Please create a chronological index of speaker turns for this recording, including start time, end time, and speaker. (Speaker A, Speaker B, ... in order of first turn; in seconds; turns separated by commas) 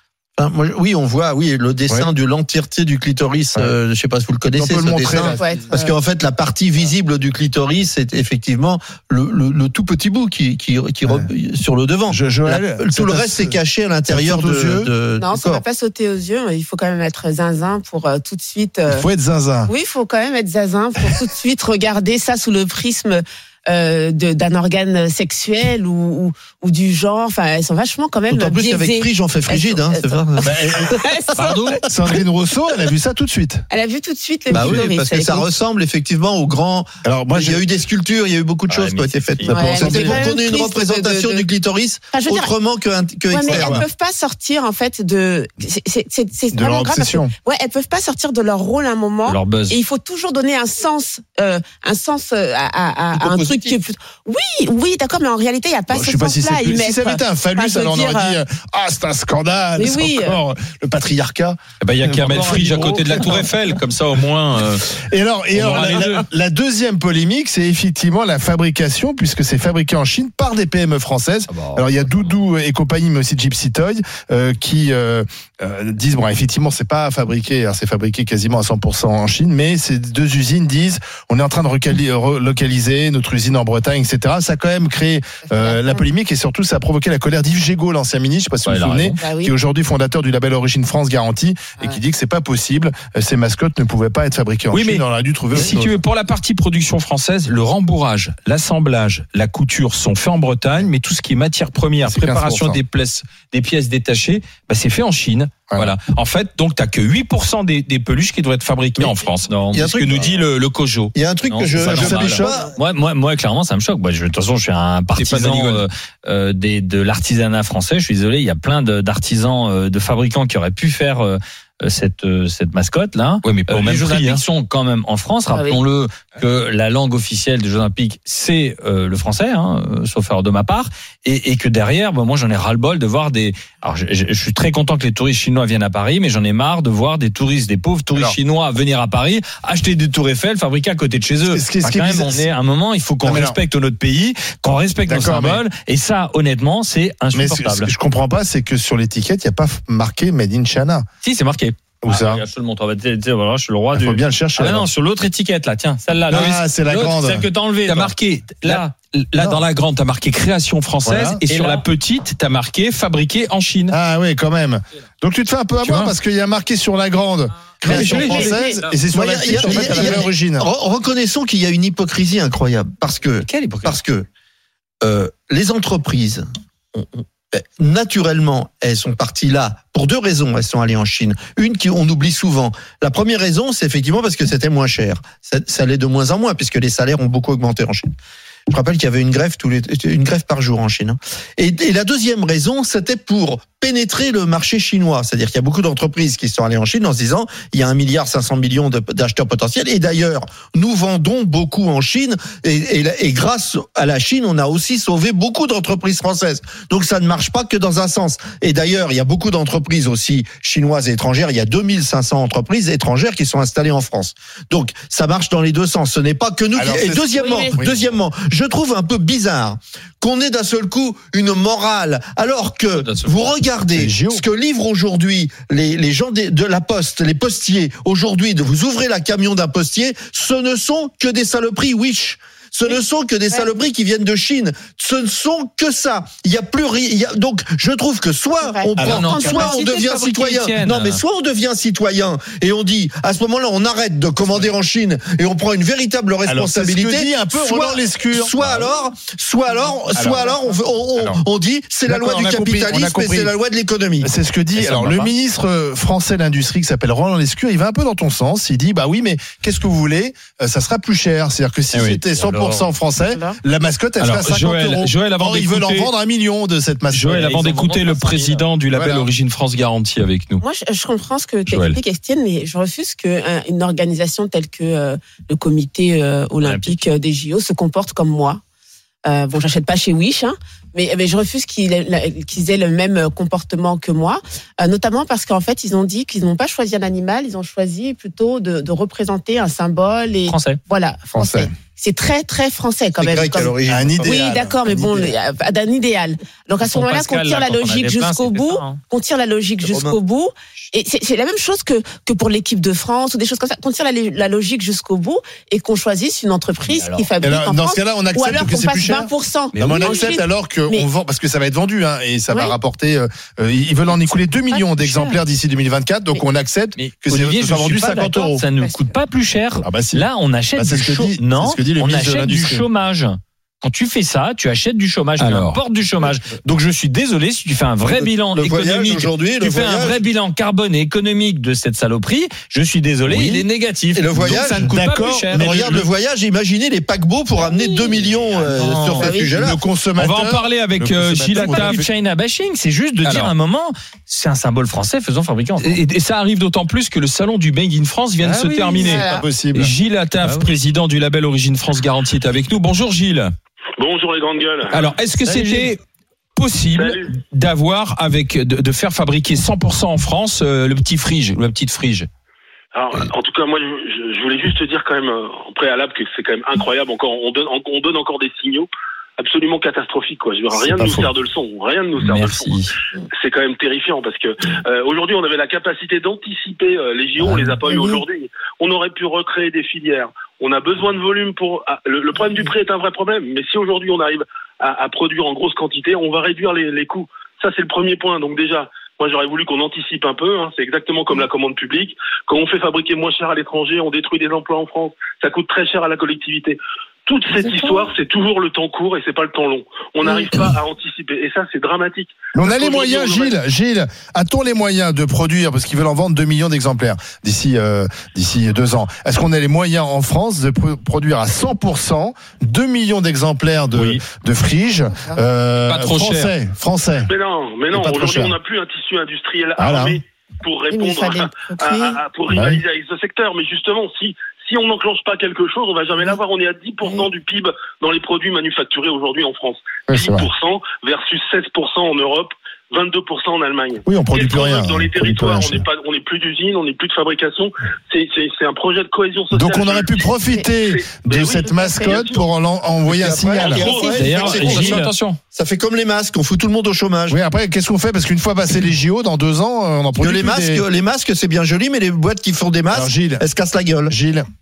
Speaker A: 0.4-15.6, Speaker B: 4.6-5.5, Speaker C: 5.3-5.9, Speaker B: 12.1-13.6, Speaker B: 14.1-14.9, Speaker C: 15.2-19.1, Speaker B: 18.9-19.7, Speaker C: 19.6-31.6, Speaker A: 28.3-31.7, Speaker B: 30.4-30.9, Speaker D: 31.4-31.8, Speaker B: 31.9-33.6, Speaker C: 33.7-35.5, Speaker B: 34.5-34.9, Speaker A: 34.5-43.8, Speaker B: 37.0-37.7, Speaker D: 38.7-39.7, Speaker B: 39.5-40.3, Speaker C: 39.5-41.5, Speaker C: 42.1-42.5, Speaker C: 43.3-58.4, Speaker B: 43.5-43.8, Speaker B: 46.5-47.3, Speaker D: 49.2-49.8, Speaker A: 53.1-53.8, Speaker B: 55.9-61.6, Speaker C: 59.8-60.4, Speaker E: 61.8-64.9, Speaker B: 62.3-63.5, Speaker B: 65.0-96.0, Speaker E: 65.5-66.2, Speaker D: 71.5-72.3, Speaker C: 85.5-86.0, Speaker D: 88.6-89.1, Speaker C: 89.2-89.5, Speaker E: 94.7-111.1, Speaker B: 102.0-102.8, Speaker D: 109.5-109.8, Speaker A: 109.7-110.3, Speaker A: 111.1-112.7, Speaker D: 111.5-147.9, Speaker B: 111.8-112.6, Speaker E: 111.8-112.5, Speaker E: 115.1-115.8, Speaker E: 123.4-124.4, Speaker C: 125.5-125.8, Speaker B: 141.4-142.4, Speaker B: 143.2-143.6, Speaker B: 145.1-145.6, Speaker B: 147.3-151.1, Speaker D: 151.2-158.1, Speaker B: 152.0-152.4, Speaker B: 153.9-154.9, Speaker B: 156.3-157.4, Speaker E: 157.8-163.9, Speaker D: 158.6-158.9, Speaker B: 159.3-159.6, Speaker B: 161.0-161.4, Speaker D: 161.4-161.8, Speaker B: 163.9-170.7, Speaker E: 165.8-166.1, Speaker E: 167.8-168.6, Speaker C: 167.9-168.8, Speaker A: 169.1-174.3, Speaker E: 169.6-170.0, Speaker D: 173.4-174.0, Speaker A: 175.0-188.1, Speaker A: 188.7-254.3, Speaker B: 216.8-218.1, Speaker C: 217.3-217.8, Speaker D: 223.0-223.6, Speaker B: 223.9-224.4, Speaker C: 238.6-239.8, Speaker B: 239.0-239.3, Speaker D: 239.1-241.2, Speaker B: 246.4-248.9, Speaker B: 250.2-250.6, Speaker B: 252.1-253.5, Speaker B: 254.2-267.5, Speaker E: 254.8-255.3, Speaker E: 261.9-262.2, Speaker D: 262.3-262.9, Speaker C: 263.2-263.6, Speaker E: 264.2-266.1, Speaker E: 267.1-270.6, Speaker D: 267.3-268.7, Speaker B: 268.9-269.3, Speaker C: 270.6-278.6, Speaker E: 271.7-271.9, Speaker D: 276.6-277.0, Speaker C: 279.2-311.1, Speaker D: 290.5-290.8, Speaker B: 291.3-291.7, Speaker A: 293.2-294.4, Speaker B: 293.9-295.3, Speaker D: 296.8-299.0, Speaker A: 299.8-300.2, Speaker D: 306.9-307.3, Speaker B: 307.4-318.6, Speaker D: 309.7-310.2, Speaker C: 312.5-312.8, Speaker D: 314.7-315.4, Speaker D: 316.9-335.9, Speaker C: 318.8-319.1, Speaker B: 319.8-322.9, Speaker E: 325.4-325.8, Speaker A: 328.1-330.2, Speaker B: 333.2-333.6, Speaker A: 334.1-334.9, Speaker B: 334.4-336.1, Speaker A: 335.5-339.8, Speaker C: 337.6-338.1, Speaker D: 338.5-339.4, Speaker C: 339.1-339.6, Speaker B: 339.5-342.1, Speaker E: 340.1-342.0, Speaker D: 341.9-346.0, Speaker E: 343.2-343.5, Speaker E: 345.8-353.5, Speaker D: 348.5-348.8, Speaker B: 348.9-349.9, Speaker C: 348.9-349.5, Speaker D: 350.4-350.7, Speaker F: 354.0-355.0, Speaker E: 354.9-356.0, Speaker D: 355.4-355.9, Speaker E: 356.6-362.3, Speaker F: 356.9-357.3, Speaker F: 362.9-372.8, Speaker D: 372.2-372.9, Speaker F: 373.3-403.6, Speaker C: 377.8-378.2, Speaker B: 402.5-417.3, Speaker E: 413.9-414.2, Speaker E: 415.8-416.5, Speaker F: 417.3-440.3, Speaker B: 417.9-418.6, Speaker B: 419.8-420.2, Speaker C: 420.9-422.2, Speaker B: 422.5-422.8, Speaker B: 430.1-430.5, Speaker B: 434.1-435.8, Speaker B: 439.5-444.3, Speaker F: 440.9-442.5, Speaker C: 441.6-442.1, Speaker A: 443.0-445.0, Speaker F: 443.6-444.2, Speaker C: 443.8-444.6, Speaker E: 444.2-445.4, Speaker D: 444.6-445.1, Speaker A: 445.5-447.4, Speaker B: 447.3-450.8, Speaker A: 450.2-454.1, Speaker B: 452.9-453.4, Speaker B: 454.1-454.4